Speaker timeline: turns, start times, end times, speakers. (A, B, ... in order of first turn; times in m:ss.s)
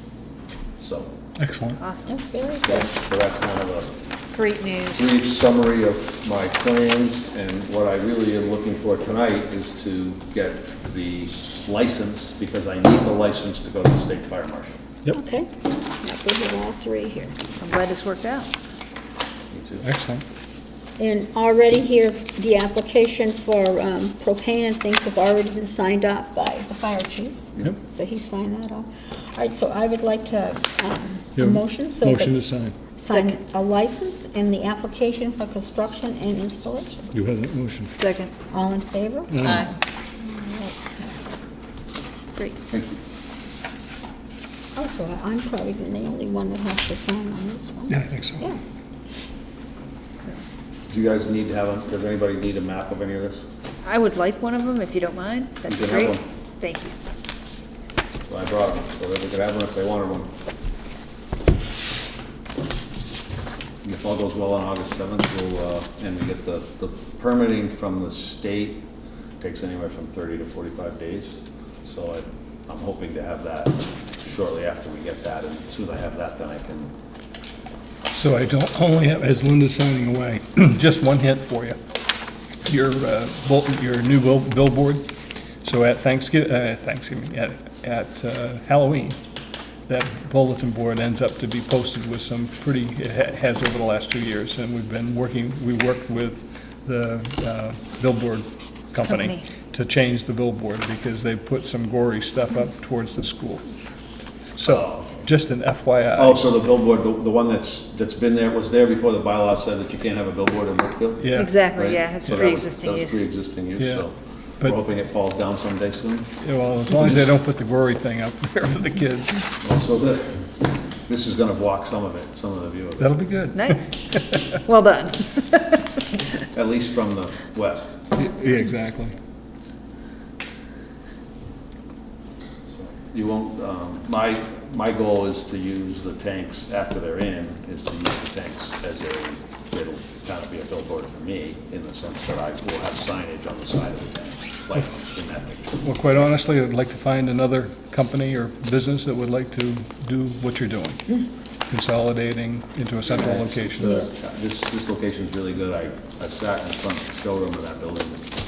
0:00.8-0:01.1 A
0:01.4-0:01.8 B
0:01.8-0:02.1 C
0:02.1-0:02.9 D
0:02.6-0:03.9 A
0:04.3-0:05.1 C
0:04.9-0:14.8 A
0:15.1-0:17.3 D
0:17.6-0:18.5 C
0:19.5-0:19.9 A
0:19.8-0:20.2 B
0:21.0-0:32.4 D
0:31.4-0:32.7 B
0:33.0-0:37.1 D
0:33.1-0:33.4 C
0:37.1-0:37.9 B
0:37.9-0:38.3 C
0:38.5-0:41.2 D
0:39.3-0:39.7 B
0:39.4-0:39.7 C
0:42.7-0:43.0 A
0:44.7-0:48.6 D
0:47.9-0:48.5 B
0:50.9-0:53.4 A
0:53.8-0:56.9 C
0:55.6-0:56.2 A
0:58.3-1:00.3 A
1:03.8-1:08.8 A
1:09.4-1:16.9 A
1:18.1-1:21.8 B
1:22.7-1:29.2 B
1:29.9-1:43.8 B
1:39.1-1:39.4 C
1:44.6-1:46.5 B
1:44.6-1:45.3 A
1:46.2-1:56.3 A
1:51.2-1:51.6 B
1:51.3-1:53.2 C
1:53.8-1:54.0 B
1:56.4-1:59.5 B
1:57.0-1:57.2 A
1:59.6-2:00.4 A
2:01.1-2:03.1 A
2:03.0-2:04.5 B
2:03.5-2:03.9 C
2:04.5-2:06.0 C
2:06.5-2:08.0 A
2:08.2-2:09.1 B
2:12.7-2:25.8 A
2:25.8-2:34.0 B
2:33.1-2:38.3 A